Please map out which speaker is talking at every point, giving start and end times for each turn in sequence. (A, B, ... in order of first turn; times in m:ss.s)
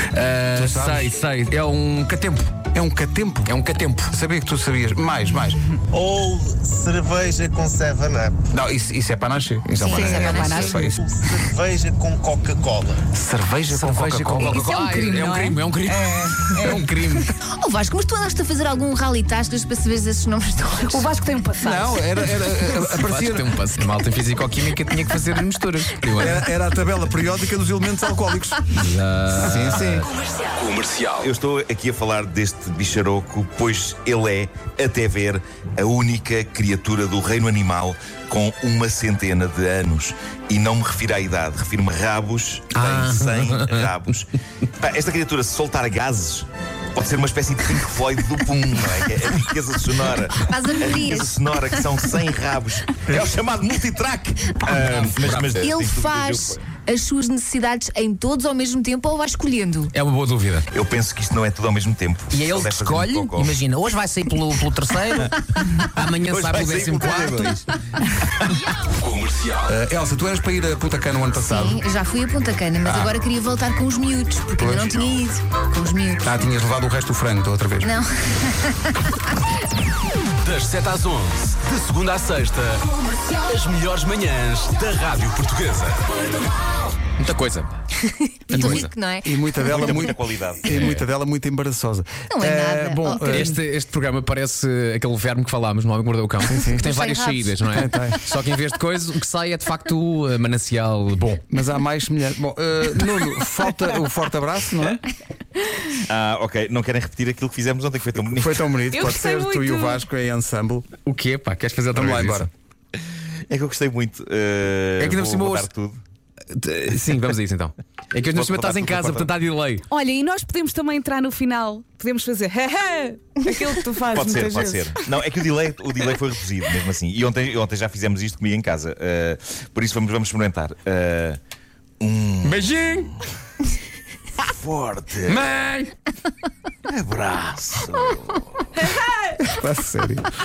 0:00.1-0:02.5 A
0:00.6-0:01.1 B
0:02.7-0:03.6 B
0:03.5-0:04.1 A
0:04.1-0:05.6 B
0:05.9-0:08.4 C
0:08.5-0:11.0 B
0:09.8-0:10.8 D
0:09.8-0:11.0 E
0:10.9-0:13.0 C
0:13.1-0:14.7 B
0:13.7-0:17.3 A
0:14.4-0:17.2 E
0:14.6-0:14.9 D
0:17.6-0:21.1 D
0:20.8-0:22.1 E
0:21.6-0:23.5 B
0:22.2-0:26.4 A
0:26.1-0:28.8 B
0:28.8-0:30.0 A
0:29.3-0:30.1 B
0:30.6-0:31.3 F
0:31.2-0:56.7 G
0:42.8-0:43.9 A
0:50.3-0:52.0 D
0:54.7-0:55.7 A
0:55.6-1:00.0 D
0:59.9-1:00.7 A
1:00.7-1:03.6 G
1:02.3-1:05.3 A
1:05.1-1:07.7 G
1:05.9-1:07.6 A
1:09.2-1:09.5 F
1:09.7-1:11.9 B
1:11.3-1:16.4 D
1:12.8-1:13.2 B
1:14.6-1:15.2 B
1:16.2-1:18.0 B
1:17.8-1:18.9 D
1:20.4-1:26.0 F
1:27.2-1:27.7 A
1:28.0-1:30.0 D
1:28.5-1:28.9 A
1:28.5-1:33.6 B
1:29.6-1:30.7 G
1:30.7-1:31.0 A
1:32.3-1:33.6 D
1:33.2-1:41.4 A
1:36.5-1:36.9 B
1:36.7-1:38.3 D
1:37.7-1:38.2 B
1:41.5-1:45.0 B
1:46.1-1:48.8 G
1:48.3-1:50.9 B
1:48.9-1:50.0 E
1:51.0-1:52.5 A
1:51.9-1:52.5 B
1:53.5-1:56.0 G
1:55.0-1:55.7 A
1:56.5-1:59.8 A
1:58.2-1:59.3 G
1:59.9-2:05.0 E
2:04.1-2:11.4 G
2:12.0-2:13.1 G
2:12.4-2:13.1 A
2:14.5-2:15.6 G
2:15.3-2:15.9 A
2:16.9-2:18.7 G
2:18.8-2:19.4 E
2:19.5-2:20.3 B